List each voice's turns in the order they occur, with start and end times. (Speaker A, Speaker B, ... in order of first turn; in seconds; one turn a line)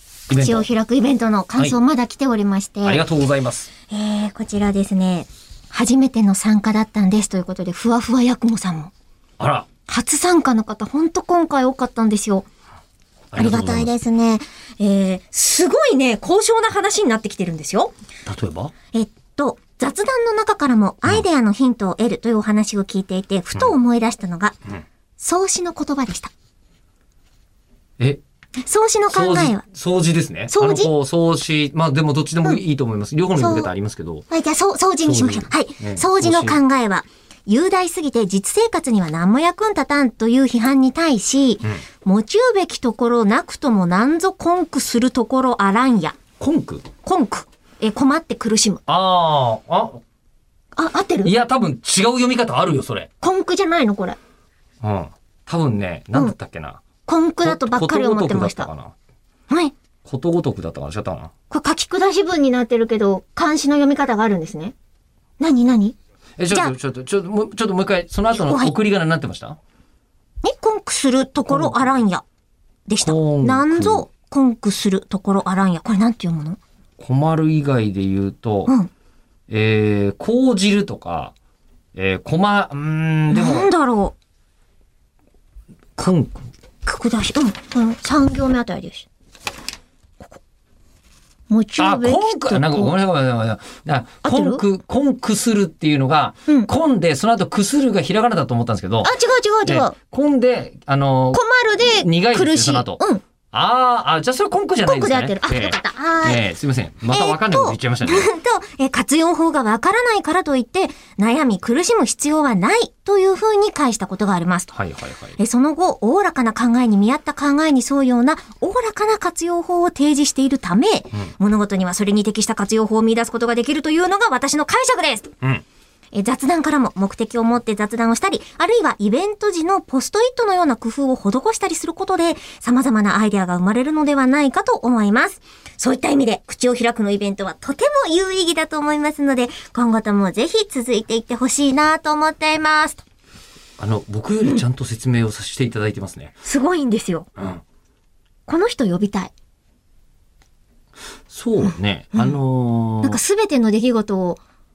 Speaker A: 0.3-0.7
Speaker B: 0.3-3.0
Speaker A: 2.8-3.7
Speaker B: 3.9-8.9
Speaker A: 9.4-9.7
Speaker B: 9.9-12.5
Speaker A: 13.3-13.9
Speaker B: 13.3-17.9
Speaker A: 18.2-18.7
Speaker B: 18.9-24.6
Speaker B: 25.2-26.3
Speaker B: 28.6-29.6
Speaker A: 29.1-34.2
Speaker B: 30.5-30.9
Speaker B: 33.4-33.7
Speaker B: 34.3-46.2
Speaker A: 35.0-36.6
Speaker A: 46.4-46.9
Speaker B: 47.0-48.8
Speaker A: 48.9-50.0
Speaker B: 50.8-51.3
Speaker A: 51.2-53.1
Speaker B: 53.2-54.2
Speaker A: 54.8-56.8
Speaker B: 57.0-58.7
Speaker A: 57.4-58.9
Speaker B: 59.5-59.7
Speaker A: 60.0-61.3
Speaker B: 61.5-64.7
Speaker B: 65.4-65.9
Speaker A: 66.4-69.6
Speaker B: 66.5-66.7
Speaker B: 68.3-68.7
Speaker B: 70.4-72.2
Speaker A: 71.5-71.9
Speaker B: 72.9-76.6
Speaker A: 73.0-74.0
Speaker A: 77.0-78.7
Speaker A: 79.5-81.3
Speaker A: 81.9-83.7
Speaker B: 83.3-84.1
Speaker A: 86.0-86.4
Speaker B: 86.8-89.1
Speaker B: 91.5-92.9
Speaker A: 91.8-99.1
Speaker B: 94.2-94.6
Speaker B: 99.0-100.0
Speaker A: 99.7-103.0
Speaker B: 101.3-103.2
Speaker A: 103.5-108.3
Speaker B: 104.8-106.4
Speaker B: 107.1-114.7
Speaker A: 114.7-115.3
Speaker B: 115.4-125.3
Speaker B: 126.1-143.0
Speaker A: 143.8-146.3
Speaker B: 146.4-147.3
Speaker A: 147.3-147.6
Speaker B: 148.4-149.3
Speaker A: 151.3-153.2
Speaker B: 153.0-154.4